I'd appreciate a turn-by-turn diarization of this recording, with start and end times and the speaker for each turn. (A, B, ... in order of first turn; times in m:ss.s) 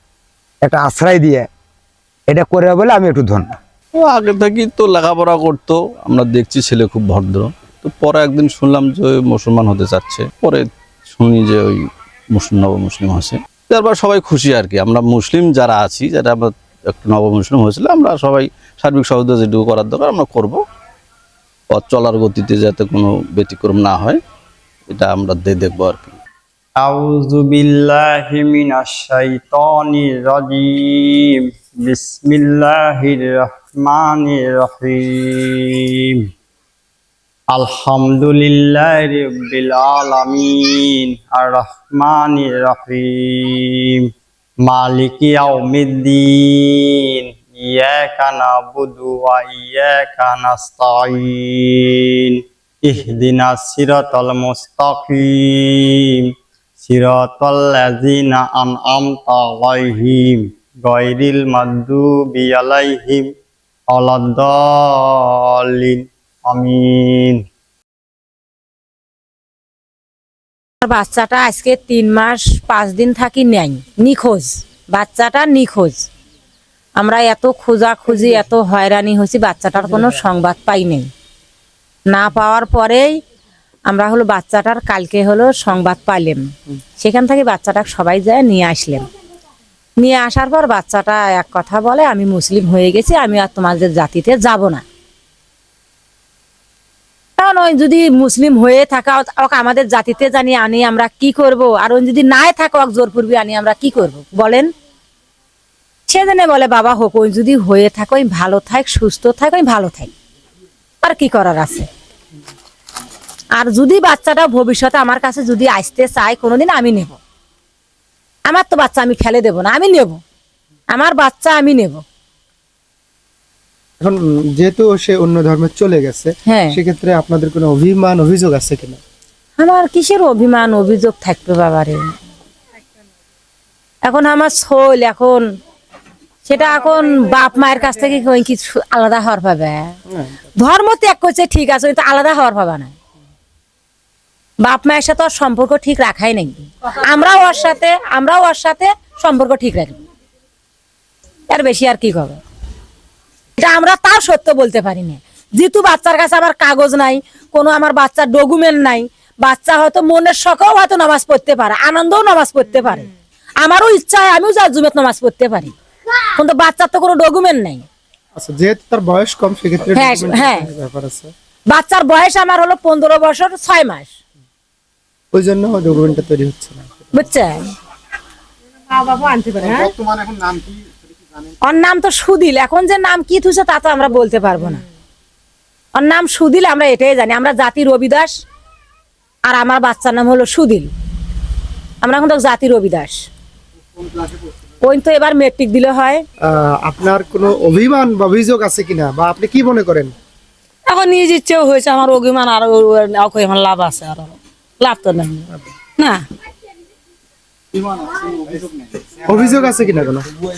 0:00.6-0:01.5 A
0:02.3-0:03.5 A
0:03.9-0:20.6 B
0:21.7-0:24.2 B
0:24.9-0:26.2 B
0:26.8-0:31.3 C
0:31.8-0:35.9 C
0:37.5-0:44.0 C
0:44.6-0:52.2 C
0:52.8-0:56.2 C
0:56.8-1:03.3 C
1:03.9-1:07.4 C
1:10.8-1:16.0 D
1:17.0-1:21.1 D
1:18.1-1:18.4 E
1:19.8-1:20.1 E
1:22.1-1:23.1 D
1:23.9-1:26.4 D
1:27.0-1:29.0 D
1:30.0-1:34.8 D
1:37.4-1:44.7 D
1:46.1-1:50.1 D
1:51.0-1:51.8 D
1:53.6-1:57.1 D
1:58.5-2:00.2 D
2:00.9-2:02.0 D
2:04.0-2:09.0 E
2:06.5-2:06.8 D
2:09.6-2:12.0 D
2:14.0-2:15.4 D
2:16.4-2:19.9 D
2:20.1-2:20.4 E
2:20.6-2:22.9 D
2:24.6-2:30.0 D
2:31.5-2:32.4 D
2:33.6-2:43.1 D
2:43.6-2:45.7 D
2:46.4-2:47.8 D
2:48.4-2:51.3 E
2:49.9-2:50.7 D
2:51.7-2:54.1 D
2:55.3-2:57.1 E
2:57.1-2:57.6 D
2:59.1-2:59.9 D
3:01.6-3:04.8 D
3:06.0-3:08.3 D
3:09.5-3:10.9 D
3:12.0-3:13.2 D
3:14.8-3:16.2 D
3:16.5-3:20.1 E
3:20.9-3:26.2 F
3:29.2-3:30.3 E